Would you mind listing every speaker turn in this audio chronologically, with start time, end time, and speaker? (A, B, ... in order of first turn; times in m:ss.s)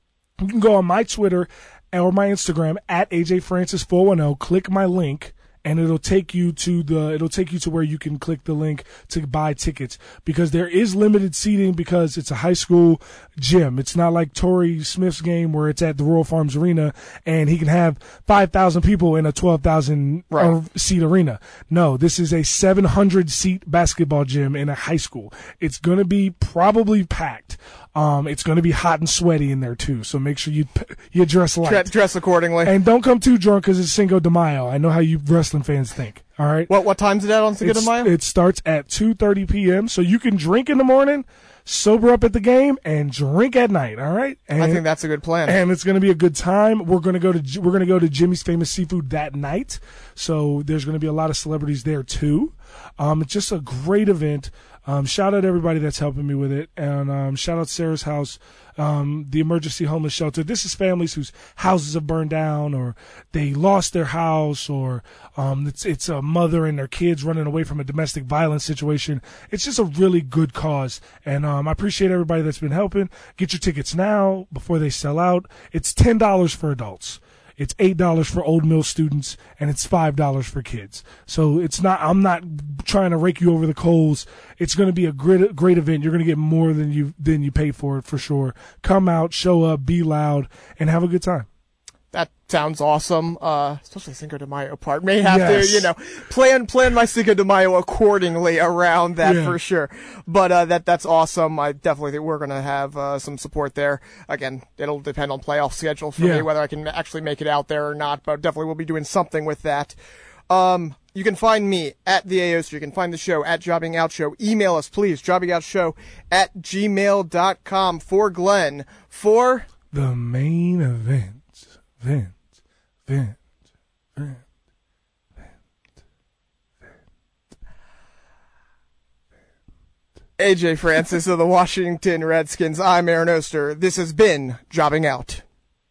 0:00.4-0:31.9 A
0:31.6-0:32.7 B
0:32.6-0:36.7 A
0:36.7-0:38.1 B
0:37.6-0:44.8 A
0:44.6-0:45.6 B
0:45.4-1:31.5 A
1:32.1-1:50.0 B
1:35.2-1:35.9 A
1:39.2-1:39.6 A
1:46.2-1:46.5 A
1:50.5-1:59.7 B
1:59.9-2:02.4 A
2:03.1-2:03.4 A
2:04.2-2:04.4 A
2:10.4-2:15.4 B